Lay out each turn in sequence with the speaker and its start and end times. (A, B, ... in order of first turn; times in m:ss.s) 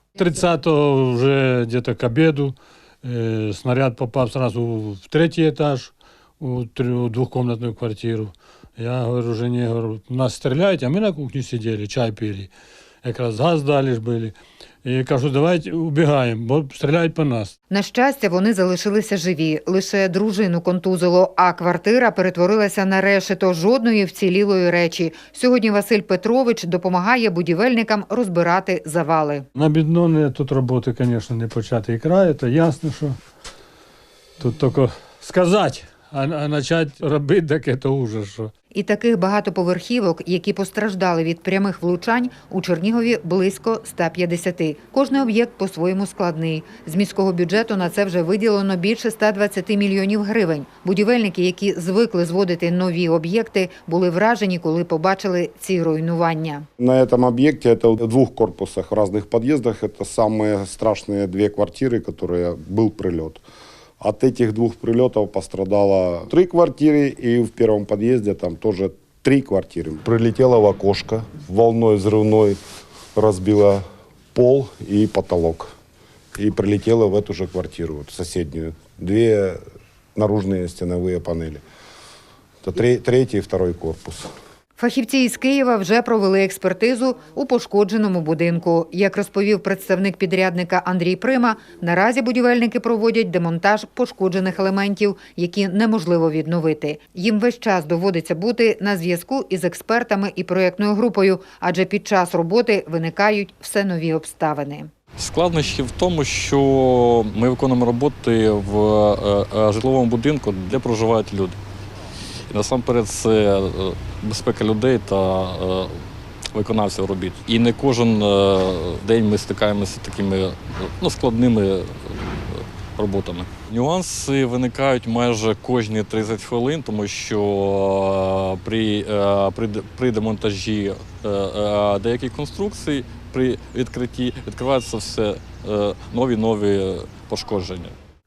0:00.2-0:12.5 A
0:13.0-0:17.5 A
0:17.7-0:29.5 B
0:29.6-0:33.2 A
0:34.4-0:38.5 A
0:38.7-0:56.7 B
0:56.8-1:03.4 C
1:04.0-1:12.6 C
1:13.2-1:15.7 C
1:16.4-1:19.6 C
1:20.2-1:21.6 C
1:22.6-1:24.3 C
1:24.8-1:44.9 B
1:45.2-1:51.6 D
1:52.5-1:56.0 D
1:56.6-2:18.0 D